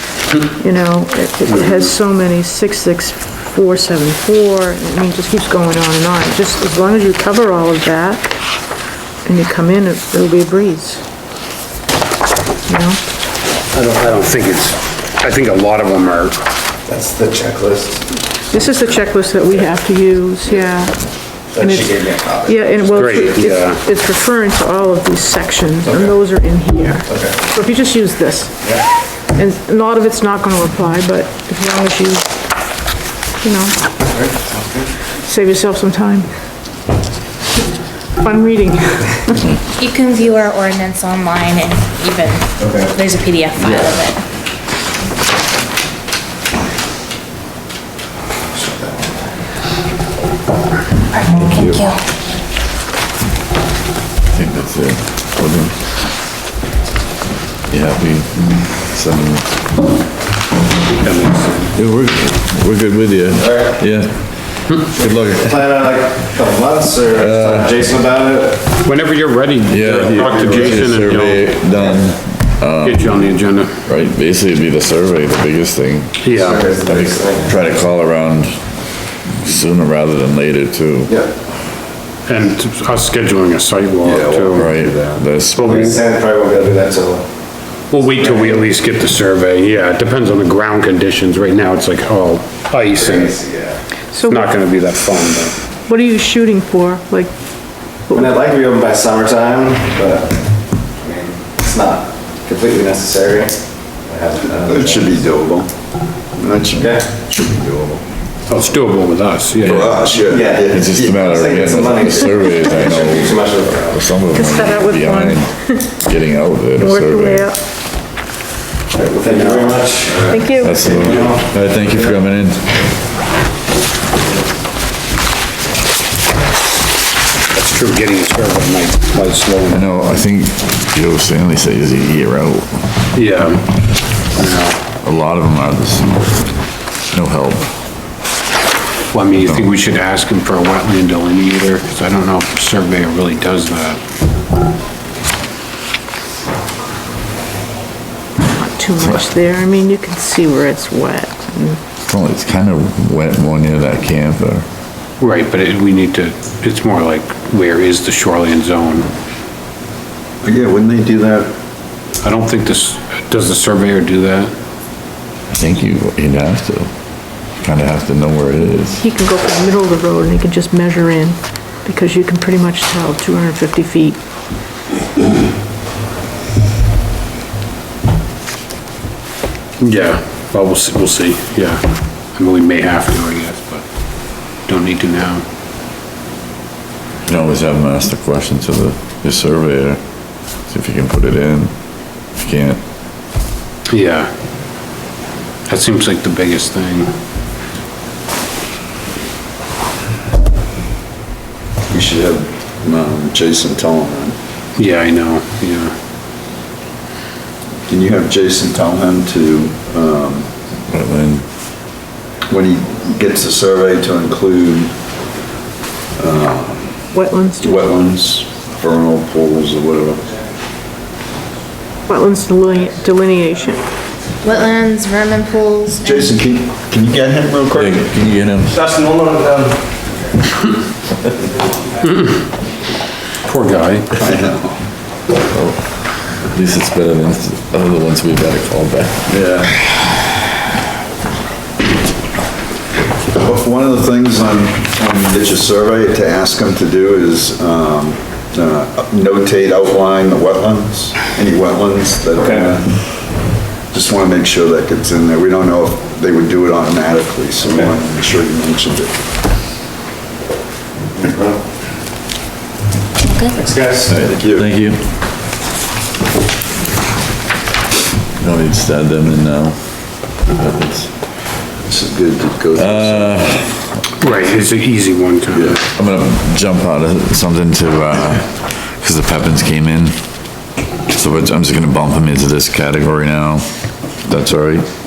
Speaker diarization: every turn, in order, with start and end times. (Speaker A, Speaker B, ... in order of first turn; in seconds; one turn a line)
Speaker A: 0.5-8.4
Speaker A: 9.2-11.0
Speaker A: 12.7-13.0
Speaker B: 13.7-16.4
Speaker C: 16.9-18.2
Speaker A: 18.5-21.0
Speaker C: 21.5-23.1
Speaker A: 21.6-32.3
Speaker B: 22.9-23.8
Speaker C: 27.1-27.4
Speaker A: 33.4-33.8
Speaker C: 34.1-34.9
Speaker A: 35.2-36.3
Speaker A: 38.2-39.5
Speaker D: 39.7-44.2
Speaker C: 42.6-42.9
Speaker C: 48.5-49.2
Speaker D: 51.1-52.0
Speaker E: 54.3-55.9
Speaker E: 57.7-59.6
Speaker B: 61.0-61.7
Speaker E: 61.7-65.6
Speaker C: 63.4-63.8
Speaker C: 64.9-68.8
Speaker E: 67.1-67.8
Speaker B: 68.8-71.5
Speaker E: 69.7-81.2
Speaker C: 70.1-70.6
Speaker B: 72.8-73.7
Speaker B: 76.2-76.6
Speaker C: 76.3-77.5
Speaker B: 82.2-84.7
Speaker F: 84.0-85.7
Speaker E: 84.5-86.0
Speaker B: 85.5-86.0
Speaker C: 85.7-88.7
Speaker B: 87.9-93.5
Speaker C: 92.9-93.8
Speaker A: 94.1-94.5
Speaker B: 94.1-95.5
Speaker A: 95.9-98.3
Speaker C: 98.1-105.2
Speaker F: 104.6-105.7
Speaker F: 106.3-108.0
Speaker C: 106.8-107.1
Speaker B: 108.5-110.1
Speaker F: 109.6-111.2
Speaker E: 109.6-117.5
Speaker C: 110.2-114.0
Speaker F: 112.0-112.3
Speaker A: 114.3-116.0
Speaker A: 116.8-117.6
Speaker C: 118.9-121.5
Speaker B: 119.2-120.2
Speaker A: 120.3-120.8
Speaker E: 120.6-122.8
Speaker B: 127.5-129.9
Speaker E: 129.7-132.9
Speaker B: 133.1-134.8
Speaker E: 135.0-137.7
Speaker B: 139.1-144.0
Speaker E: 139.3-139.7
Speaker A: 148.4-151.8
Speaker E: 152.1-154.7
Speaker B: 155.2-159.1
Speaker F: 160.4-161.5
Speaker B: 162.2-164.5
Speaker E: 165.5-166.9
Speaker E: 167.5-169.0
Speaker A: 169.0-174.2
Speaker B: 179.8-181.8
Speaker B: 182.3-183.8
Speaker B: 184.6-185.4
Speaker E: 187.2-192.8
Speaker B: 193.9-194.3
Speaker B: 195.7-197.1
Speaker F: 201.9-204.4
Speaker B: 204.8-205.9
Speaker F: 207.9-210.5
Speaker E: 210.9-211.5
Speaker F: 212.5-214.9
Speaker F: 216.2-217.0
Speaker A: 217.1-217.8
Speaker F: 217.6-220.2
Speaker A: 222.1-223.8
Speaker D: 224.4-226.3
Speaker F: 226.0-228.0
Speaker E: 227.7-229.0
Speaker B: 232.0-232.4
Speaker B: 233.4-234.1
Speaker F: 234.2-234.8
Speaker E: 235.5-239.3
Speaker F: 239.3-239.8
Speaker F: 243.3-259.1
Speaker C: 252.3-252.7
Speaker C: 261.2-261.6
Speaker D: 263.2-263.6
Speaker C: 263.5-264.1
Speaker E: 264.1-265.1
Speaker F: 264.3-264.7
Speaker E: 268.4-271.4
Speaker F: 271.9-273.4
Speaker E: 272.7-274.4
Speaker B: 274.2-275.8
Speaker F: 275.5-275.8
Speaker E: 275.8-280.1
Speaker E: 281.1-283.6
Speaker E: 284.2-284.9